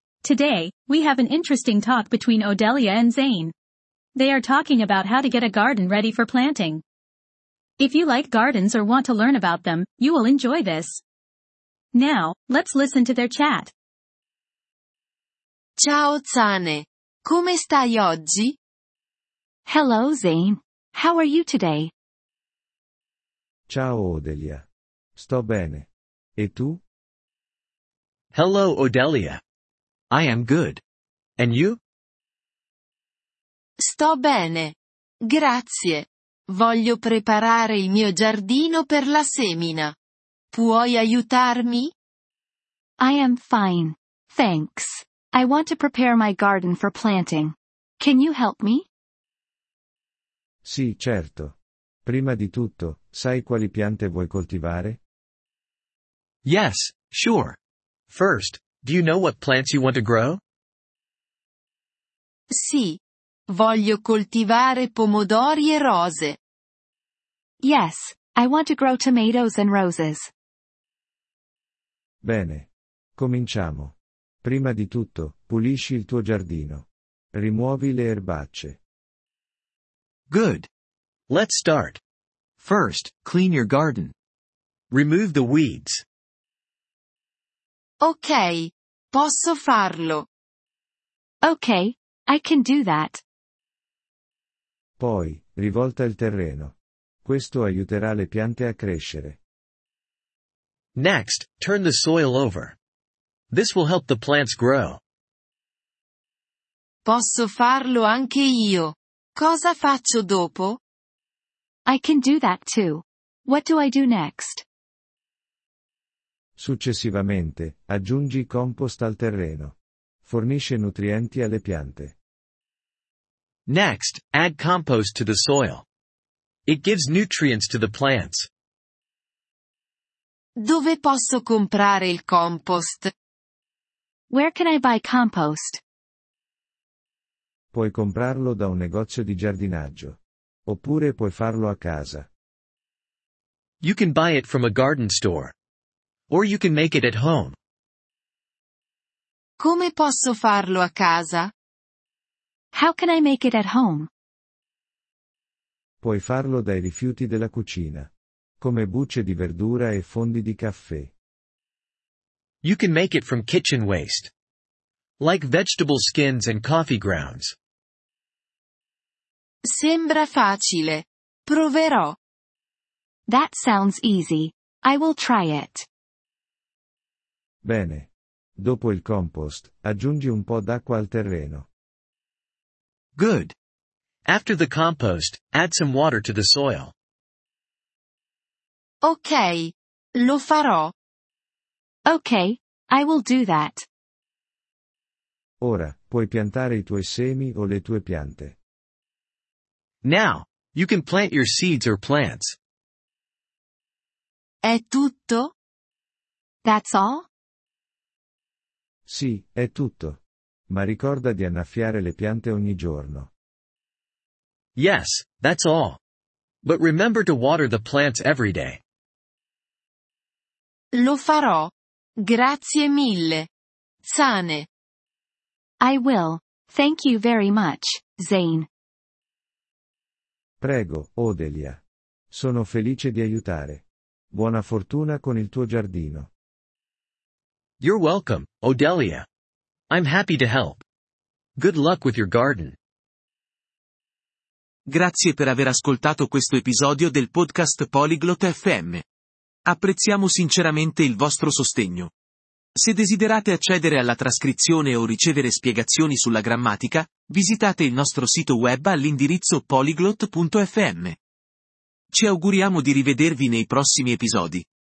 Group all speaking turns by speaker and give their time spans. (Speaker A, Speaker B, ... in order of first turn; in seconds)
Speaker A: 0.2-3.5, 4.2-6.8, 7.8-11.0, 11.9-13.7
Speaker B: 15.8-18.6, 33.8-34.7, 35.3-39.9, 40.5-41.9, 62.5-66.4, 88.0-90.3, 107.1-110.8, 130.6-133.1, 149.6-151.5, 169.7-172.2, 189.0-190.9, 204.6-205.5, 220.9-221.7, 222.2-223.5, 224.1-224.7
Speaker C: 19.7-21.9, 43.0-48.9, 67.6-70.3, 91.4-93.2, 111.9-114.6, 134.3-135.8, 152.7-154.1, 173.3-175.9, 192.1-193.8, 206.7-207.3, 225.8-228.7
Speaker D: 23.7-24.6, 25.2-26.8, 50.6-51.5, 52.1-55.0, 72.2-78.8, 95.0-99.4, 116.6-122.1, 137.7-142.3, 156.0-158.1, 158.6-161.1, 177.6-181.7, 195.6-198.6, 209.1-213.3, 230.6-231.8, 232.3-236.3
Speaker E: 28.3-29.4, 30.1-30.8, 31.4-31.8, 56.5-57.6, 58.1-60.4, 80.3-80.7, 81.3-82.0, 82.6-84.1, 84.9-86.0, 101.0-102.8, 103.5-105.0, 123.7-125.8, 126.7-128.5, 143.8-145.5, 146.3-147.6, 162.6-164.3, 165.2-167.5, 183.2-183.5, 184.3-186.9, 200.0-202.6, 214.8-216.0, 216.6-218.8, 237.8-239.3, 239.9-240.8, 241.6-242.8
Speaker F: 244.9-249.0, 249.7-252.1, 252.8-261.2, 262.1-264.6